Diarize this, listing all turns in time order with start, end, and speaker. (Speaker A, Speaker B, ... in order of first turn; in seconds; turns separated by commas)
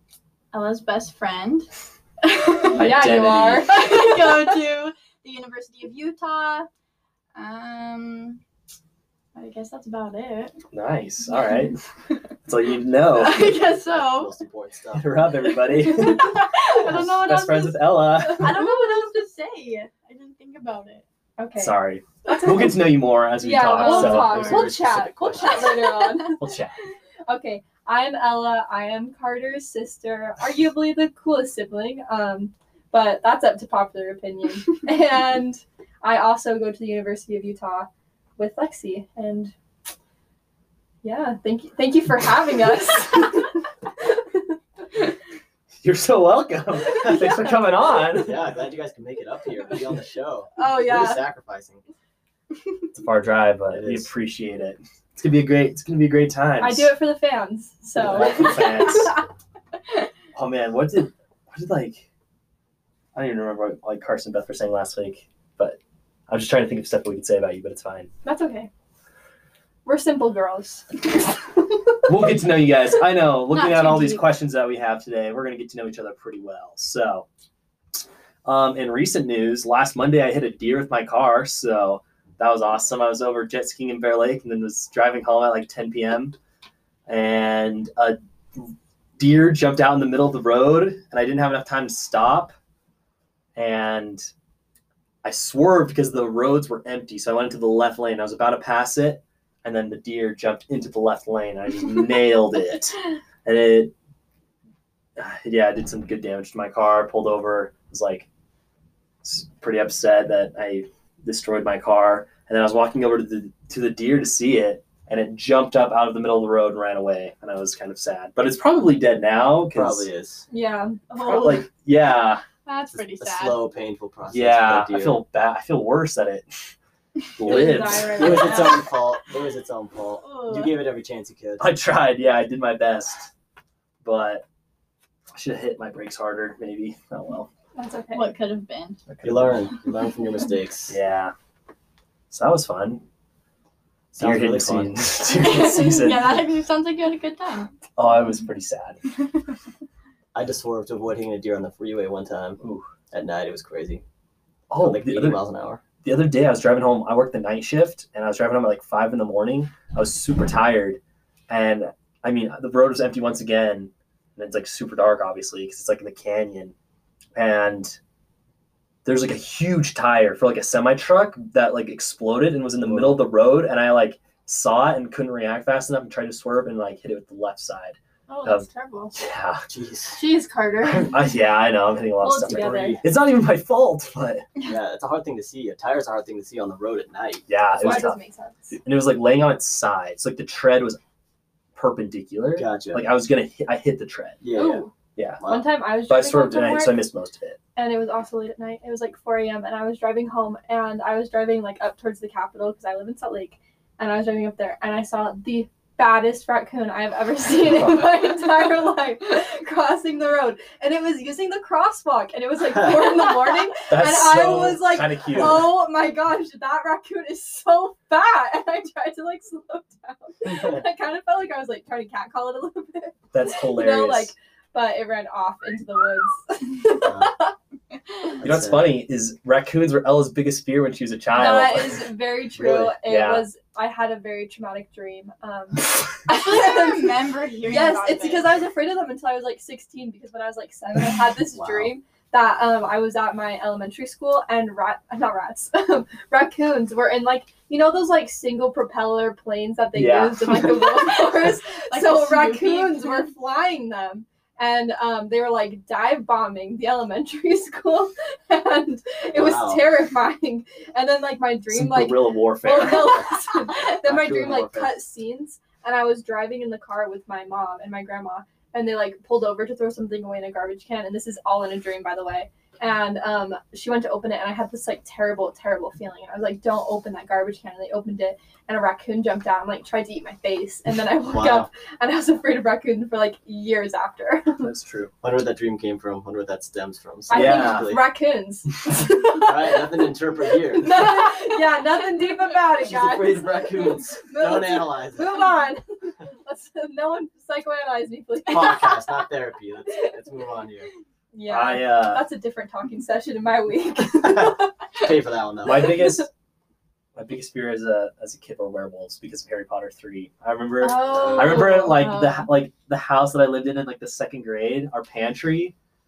Speaker A: 0.5-1.7, Speaker A: 2.2-2.7, Speaker B: 2.6-4.5, Speaker C: 2.7-3.8, Speaker A: 3.7-6.7, Speaker A: 7.3-8.4, Speaker A: 9.3-10.5, Speaker C: 10.7-11.7, Speaker A: 11.4-11.7, Speaker C: 12.4-13.6, Speaker A: 13.1-14.3, Speaker D: 13.7-15.2, Speaker C: 14.9-18.6, Speaker A: 15.9-17.8, Speaker A: 18.3-21.0, Speaker B: 18.5-19.1, Speaker B: 21.4-26.4, Speaker C: 21.6-24.6, Speaker A: 23.7-24.6, Speaker D: 24.0-25.9, Speaker C: 26.4-26.8, Speaker B: 27.3-39.5, Speaker B: 41.0-44.4, Speaker C: 45.8-48.4, Speaker B: 47.0-47.5, Speaker D: 48.1-51.8, Speaker B: 50.6-51.2, Speaker C: 52.9-56.9, Speaker D: 53.7-54.1, Speaker B: 56.6-59.1, Speaker C: 58.0-59.1, Speaker C: 60.3-62.0, Speaker C: 63.1-68.1, Speaker B: 68.2-68.7, Speaker B: 69.8-71.0, Speaker C: 72.0-77.2, Speaker A: 73.5-74.3, Speaker C: 78.4-86.3, Speaker C: 87.1-92.5, Speaker C: 93.5-94.3, Speaker C: 95.2-103.9, Speaker C: 105.2-108.3, Speaker C: 109.2-120.1, Speaker D: 119.7-120.5, Speaker B: 120.5-121.6, Speaker A: 121.1-121.6, Speaker C: 121.2-122.4, Speaker A: 122.6-123.6, Speaker D: 123.2-125.2, Speaker C: 124.3-126.5, Speaker C: 127.3-128.5, Speaker B: 127.4-128.8, Speaker D: 127.5-131.7, Speaker A: 130.2-130.8, Speaker C: 131.6-133.3, Speaker C: 134.0-134.4, Speaker C: 135.3-137.5, Speaker B: 137.7-138.3, Speaker A: 138.1-139.0, Speaker C: 139.1-139.6, Speaker D: 139.2-140.9, Speaker C: 140.9-141.3, Speaker C: 142.3-143.0, Speaker D: 144.1-145.7, Speaker C: 144.2-146.4, Speaker A: 145.3-147.7, Speaker C: 147.9-149.0, Speaker D: 150.3-152.6, Speaker C: 152.6-152.8, Speaker D: 153.1-154.0, Speaker C: 154.7-155.4, Speaker D: 154.8-155.8, Speaker C: 156.0-166.7, Speaker C: 167.3-168.0, Speaker C: 169.0-179.7, Speaker D: 172.8-173.2, Speaker B: 178.3-179.1, Speaker D: 179.7-180.2, Speaker B: 180.2-181.1, Speaker C: 180.8-184.4, Speaker B: 182.2-183.0, Speaker D: 182.5-183.0, Speaker D: 184.6-187.4, Speaker C: 187.5-188.2, Speaker B: 187.8-188.7, Speaker C: 188.7-191.0, Speaker C: 191.8-194.4, Speaker D: 192.5-193.1, Speaker D: 194.4-194.8, Speaker B: 194.5-194.9, Speaker C: 195.2-195.4, Speaker D: 195.4-195.7, Speaker B: 195.4-197.1, Speaker C: 196.1-197.6, Speaker B: 197.8-227.5, Speaker C: 213.9-215.7, Speaker D: 220.5-220.8, Speaker C: 223.3-224.3, Speaker D: 227.0-227.3, Speaker D: 228.4-229.0, Speaker C: 228.4-232.0, Speaker B: 231.3-284.7, Speaker D: 232.5-232.9, Speaker C: 233.0-233.5, Speaker A: 236.3-238.5, Speaker D: 241.5-241.9, Speaker C: 249.9-250.7, Speaker A: 251.1-253.2, Speaker D: 259.3-259.8, Speaker C: 261.7-263.2, Speaker D: 264.0-265.0, Speaker D: 281.2-281.7, Speaker C: 284.6-285.1, Speaker D: 285.2-288.0, Speaker B: 287.3-289.8, Speaker C: 287.3-287.9, Speaker D: 289.4-291.1, Speaker B: 290.7-299.2, Speaker D: 292.8-295.3, Speaker D: 298.5-300.9, Speaker B: 301.3-305.0, Speaker C: 301.5-302.2, Speaker D: 304.2-306.1, Speaker C: 305.6-306.3, Speaker B: 305.8-306.0, Speaker C: 307.1-315.7, Speaker B: 310.8-312.0, Speaker D: 311.1-311.5, Speaker A: 311.6-312.5